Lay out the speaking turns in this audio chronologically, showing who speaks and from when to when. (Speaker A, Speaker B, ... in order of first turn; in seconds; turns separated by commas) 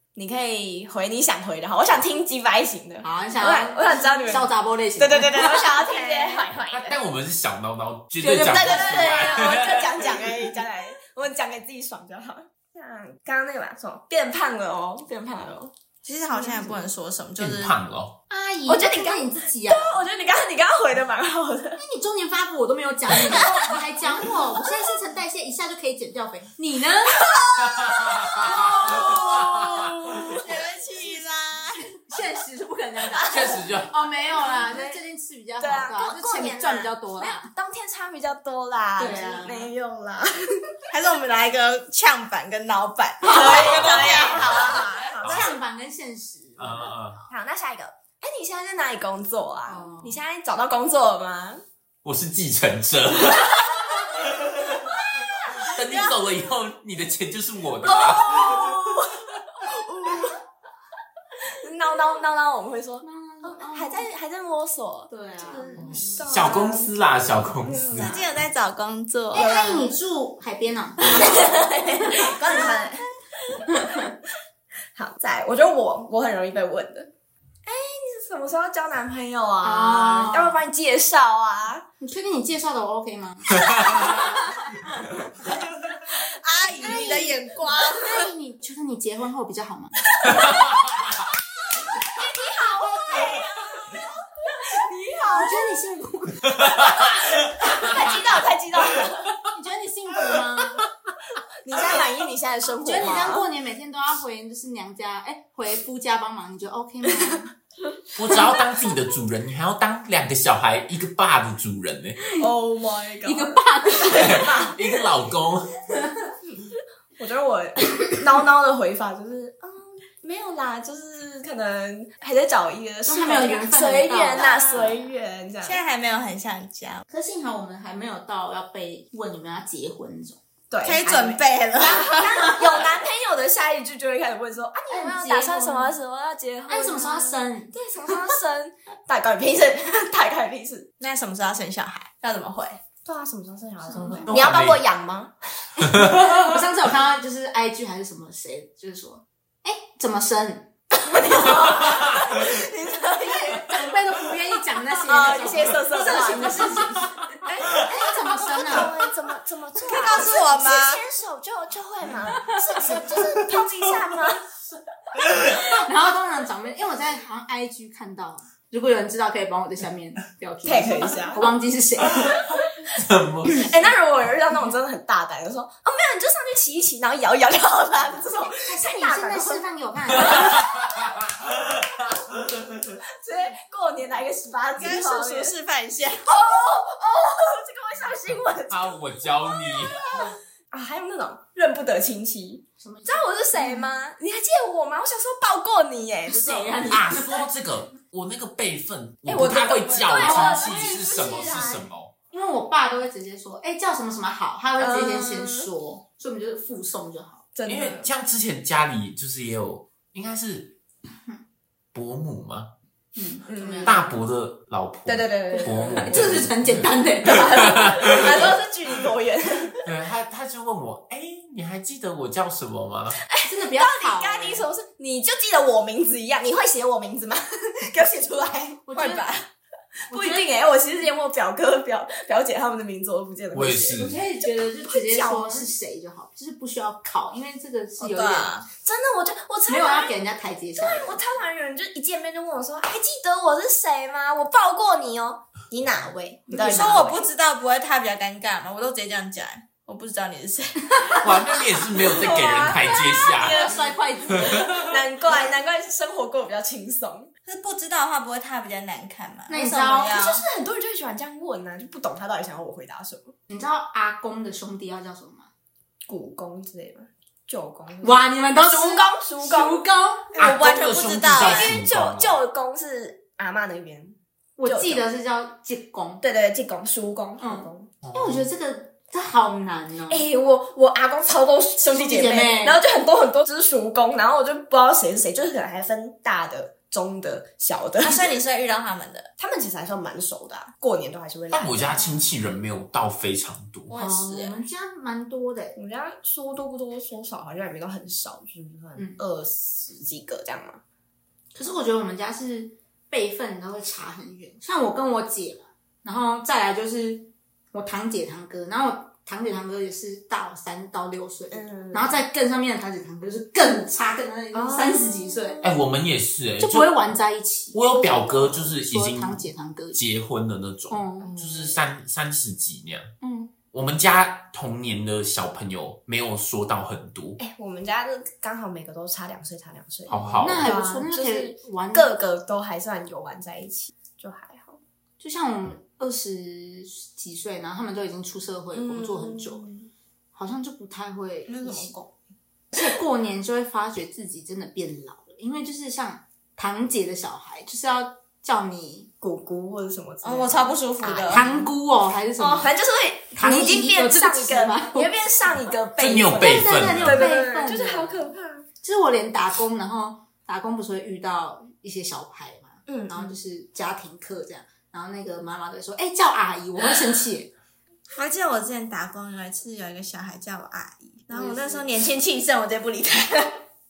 Speaker A: 0.1-6.9, Speaker B: 3.0-6.3, Speaker C: 6.7-9.8, Speaker A: 8.2-15.7, Speaker B: 8.8-9.2, Speaker D: 16.0-17.7, Speaker B: 16.3-16.8, Speaker C: 17.4-18.2, Speaker B: 18.3-20.0, Speaker A: 18.7-21.8, Speaker B: 21.8-27.2, Speaker A: 27.3-30.3, Speaker C: 27.6-29.7, Speaker B: 28.4-29.4, Speaker D: 30.4-31.9, Speaker B: 32.1-37.5, Speaker C: 33.2-34.0, Speaker A: 34.3-35.0, Speaker A: 35.6-40.4, Speaker B: 39.0-39.7, Speaker D: 40.9-44.8, Speaker A: 43.2-45.6, Speaker C: 43.5-44.6, Speaker C: 45.2-45.5, Speaker B: 45.2-47.3, Speaker C: 46.6-47.2, Speaker A: 47.3-51.6, Speaker B: 49.7-50.2, Speaker C: 52.0-53.8, Speaker C: 55.6-58.7, Speaker A: 57.8-60.4, Speaker A: 61.6-66.9, Speaker B: 63.0-64.0, Speaker B: 65.1-66.7, Speaker C: 65.8-68.3, Speaker A: 67.5-68.2, Speaker D: 68.0-69.5, Speaker B: 69.3-72.8, Speaker A: 69.3-69.9, Speaker A: 71.2-74.0, Speaker B: 73.7-74.1, Speaker A: 74.9-77.1, Speaker A: 77.7-81.8, Speaker B: 79.6-80.6, Speaker B: 82.0-84.5, Speaker C: 83.5-84.3, Speaker A: 83.7-84.3, Speaker D: 86.4-88.2, Speaker B: 86.8-87.3, Speaker A: 86.9-87.2, Speaker B: 88.0-89.9, Speaker A: 90.2-90.7, Speaker A: 92.1-94.0, Speaker A: 94.5-95.8, Speaker B: 95.3-97.0, Speaker A: 96.5-99.4, Speaker B: 97.8-98.3, Speaker B: 99.4-100.8, Speaker A: 101.6-103.5, Speaker B: 102.8-107.5, Speaker C: 108.1-112.2, Speaker B: 112.2-112.5, Speaker A: 112.4-114.7, Speaker B: 113.2-114.9, Speaker C: 114.1-115.8, Speaker A: 116.5-125.8, Speaker B: 123.0-125.1, Speaker D: 124.4-124.8, Speaker D: 125.6-127.0, Speaker B: 127.1-130.4, Speaker A: 130.7-140.9, Speaker D: 130.8-132.4, Speaker B: 132.4-132.7, Speaker B: 134.9-135.9, Speaker B: 136.7-137.7, Speaker D: 141.0-142.8, Speaker A: 143.0-145.3, Speaker B: 143.9-144.3, Speaker C: 144.3-144.8, Speaker B: 145.8-150.7, Speaker C: 145.9-146.2, Speaker A: 151.0-153.8, Speaker B: 153.5-158.9, Speaker A: 155.1-164.4, Speaker D: 159.9-161.0, Speaker B: 165.4-172.5, Speaker A: 170.6-171.5, Speaker C: 172.9-173.9, Speaker B: 173.5-173.7, Speaker A: 173.6-180.8, Speaker B: 178.6-180.6, Speaker C: 180.3-181.1, Speaker A: 183.2-185.5, Speaker D: 184.8-186.3, Speaker A: 186.2-196.8, Speaker C: 188.7-190.1, Speaker B: 192.8-193.9, Speaker B: 196.3-197.5, Speaker C: 196.8-202.1, Speaker A: 199.3-201.8, Speaker B: 200.1-207.5, Speaker A: 204.8-205.7, Speaker A: 207.5-208.1, Speaker C: 207.7-210.8, Speaker C: 211.9-212.7, Speaker B: 213.1-214.2, Speaker A: 213.5-214.0, Speaker C: 213.8-217.5, Speaker A: 215.1-216.3, Speaker B: 215.5-218.3, Speaker A: 217.2-219.8, Speaker C: 219.8-223.2, Speaker A: 223.3-229.5, Speaker B: 223.4-224.7, Speaker B: 228.8-229.3, Speaker B: 230.1-230.4, Speaker A: 230.1-234.0, Speaker C: 233.5-234.2, Speaker B: 233.9-238.6, Speaker A: 234.8-235.7, Speaker D: 238.0-238.7, Speaker A: 238.8-240.2, Speaker B: 239.7-241.2, Speaker A: 240.8-247.2, Speaker B: 246.5-247.1, Speaker D: 246.5-251.4, Speaker C: 251.2-253.6, Speaker A: 252.1-257.3, Speaker B: 253.3-255.0, Speaker D: 257.4-260.3, Speaker B: 259.5-260.4, Speaker A: 260.1-263.3, Speaker B: 263.5-265.5, Speaker A: 266.1-269.8, Speaker B: 268.0-270.3, Speaker D: 270.4-271.8, Speaker C: 270.4-272.4, Speaker A: 270.4-270.8, Speaker A: 271.3-275.1, Speaker B: 274.6-276.2, Speaker A: 276.2-277.9, Speaker B: 277.4-280.3, Speaker C: 278.0-278.5, Speaker A: 280.1-288.4, Speaker B: 281.8-282.8, Speaker D: 288.0-289.3, Speaker A: 289.4-292.2, Speaker C: 291.5-294.0, Speaker D: 293.9-294.6, Speaker B: 294.0-295.8, Speaker A: 295.8-300.8, Speaker B: 301.5-315.6, Speaker A: 311.5-312.2, Speaker A: 314.5-315.7, Speaker C: 315.6-316.9, Speaker B: 316.6-320.0, Speaker C: 317.7-323.1, Speaker B: 320.9-321.3, Speaker A: 321.2-321.8, Speaker B: 323.2-323.5, Speaker C: 323.7-327.4, Speaker A: 327.4-334.8, Speaker C: 330.1-330.8, Speaker B: 330.4-332.1, Speaker B: 335.2-339.6, Speaker A: 338.7-339.9, Speaker B: 340.3-341.9, Speaker A: 341.5-342.0, Speaker B: 342.7-349.1, Speaker A: 349.2-351.6, Speaker D: 350.2-351.4, Speaker B: 351.0-352.7, Speaker A: 352.4-358.6, Speaker B: 353.3-355.1, Speaker C: 356.0-357.3, Speaker B: 356.4-358.3, Speaker B: 358.8-367.5, Speaker A: 362.9-363.4, Speaker D: 368.1-373.6, Speaker A: 371.3-371.8